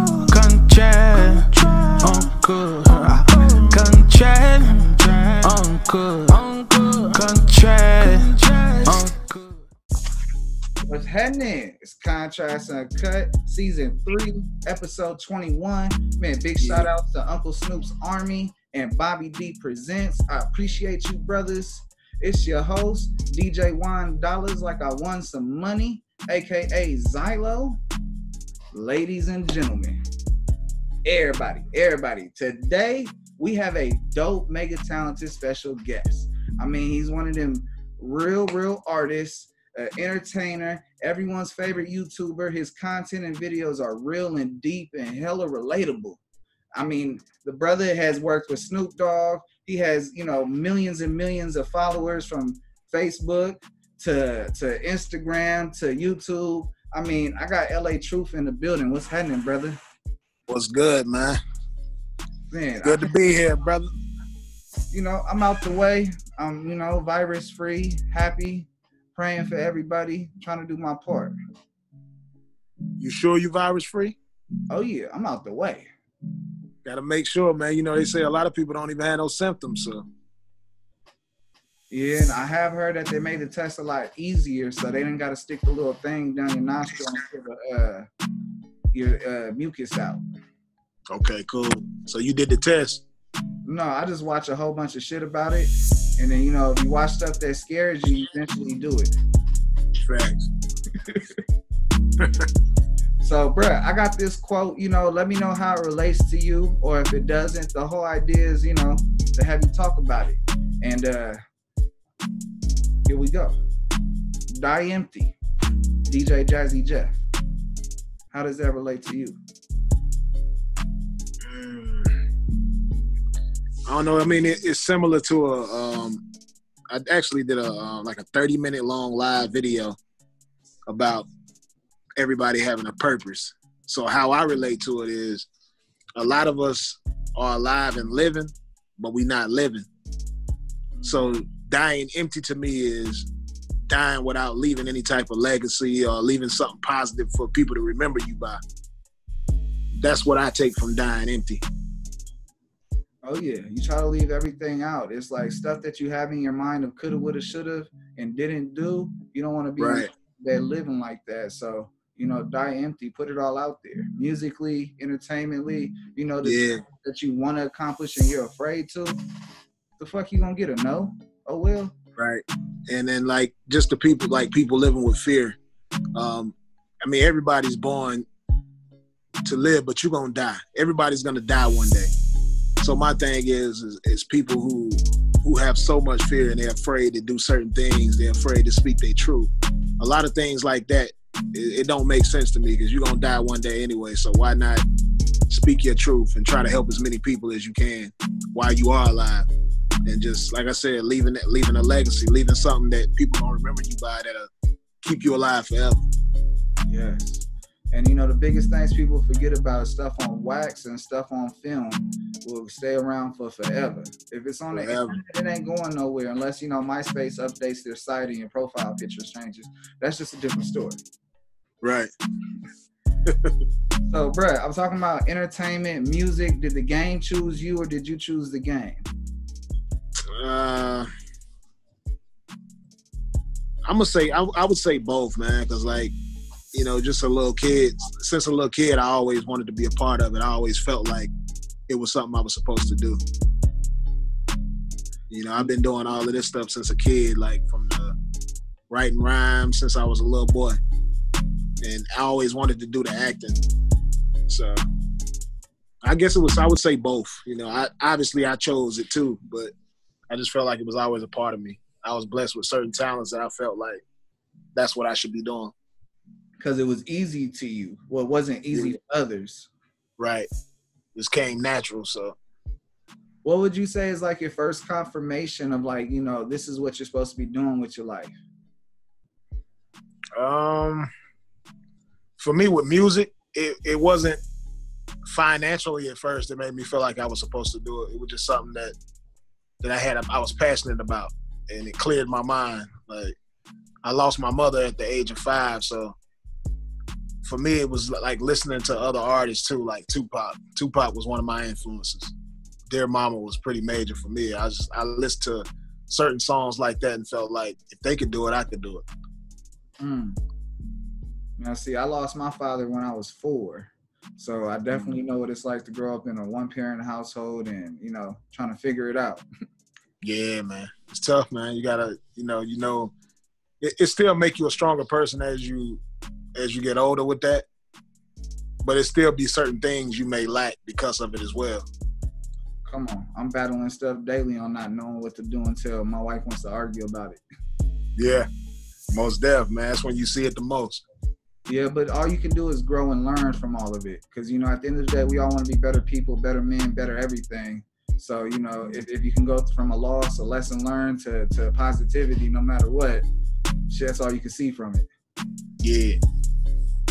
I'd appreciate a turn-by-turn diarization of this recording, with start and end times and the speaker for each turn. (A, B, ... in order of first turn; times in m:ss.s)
0:00.2-0:09.6 A
0:10.9-0:27.8 B
0:16.6-0:16.9 C
0:28.7-0:30.0 B
0:31.0-0:46.2 B
0:46.8-0:59.8 B
1:00.5-1:01.4 C
1:02.5-1:03.1 B
1:02.8-1:03.9 C
1:04.9-1:11.4 B
1:13.0-1:14.2 C
1:14.7-1:15.9 B
1:16.8-1:20.1 C
1:21.9-1:28.1 B
1:28.9-1:30.2 B
1:31.1-1:33.0 C
1:33.7-1:39.2 B
1:40.0-1:40.5 C
1:42.2-1:42.5 C
1:43.2-1:51.4 B
1:53.1-1:53.6 B
1:54.5-1:55.4 B
1:56.1-1:57.2 B
1:58.3-1:59.4 B
2:01.4-2:02.2 C
2:03.9-2:06.2 C
2:06.9-2:10.0 C
2:10.9-2:11.3 C
2:12.2-2:15.5 C
2:16.2-2:19.9 C
2:21.0-2:21.3 B
2:21.0-2:23.3 C
2:23.9-2:28.6 C
2:29.9-2:31.6 C
2:33.2-2:49.2 B
2:39.8-2:40.1 C
2:46.4-2:46.8 C
2:50.0-2:51.9 B
2:52.2-2:55.6 C
2:56.2-2:58.3 C
2:59.4-3:02.1 C
3:02.8-3:14.8 C
3:15.5-3:19.5 C
3:20.1-3:24.5 C
3:25.0-3:26.0 C
3:26.9-3:41.0 B
3:34.7-3:35.2 C
3:41.8-3:42.1 C
3:43.3-3:43.5 C
3:44.1-3:49.1 B
3:50.3-3:51.1 C
3:53.9-3:56.1 C
3:56.7-4:01.3 C
4:01.9-4:03.2 C
4:05.3-4:08.2 C
4:08.9-4:10.8 C
4:11.8-4:13.6 C
4:14.5-4:14.8 C
4:16.0-4:19.7 C
4:20.3-4:24.0 C
4:24.8-4:25.7 C
4:26.6-4:29.7 B
4:30.2-4:30.5 C
4:31.2-4:32.4 C
4:33.4-4:38.4 B
4:40.4-4:41.1 C
4:42.4-4:44.4 C
4:45.3-4:49.0 C
4:49.8-4:53.4 C
4:54.0-4:56.2 C
4:57.4-5:02.3 C
5:02.9-5:09.0 C
5:10.0-5:10.4 B
5:11.6-5:19.4 B
5:20.2-5:23.1 C
5:23.8-5:26.0 C
5:26.6-5:27.6 C
5:28.8-5:31.9 C
5:32.8-5:37.4 B
5:38.2-5:38.5 C
5:39.1-5:41.0 C
5:41.7-5:53.2 B
5:53.9-5:55.1 B
5:55.8-5:56.2 C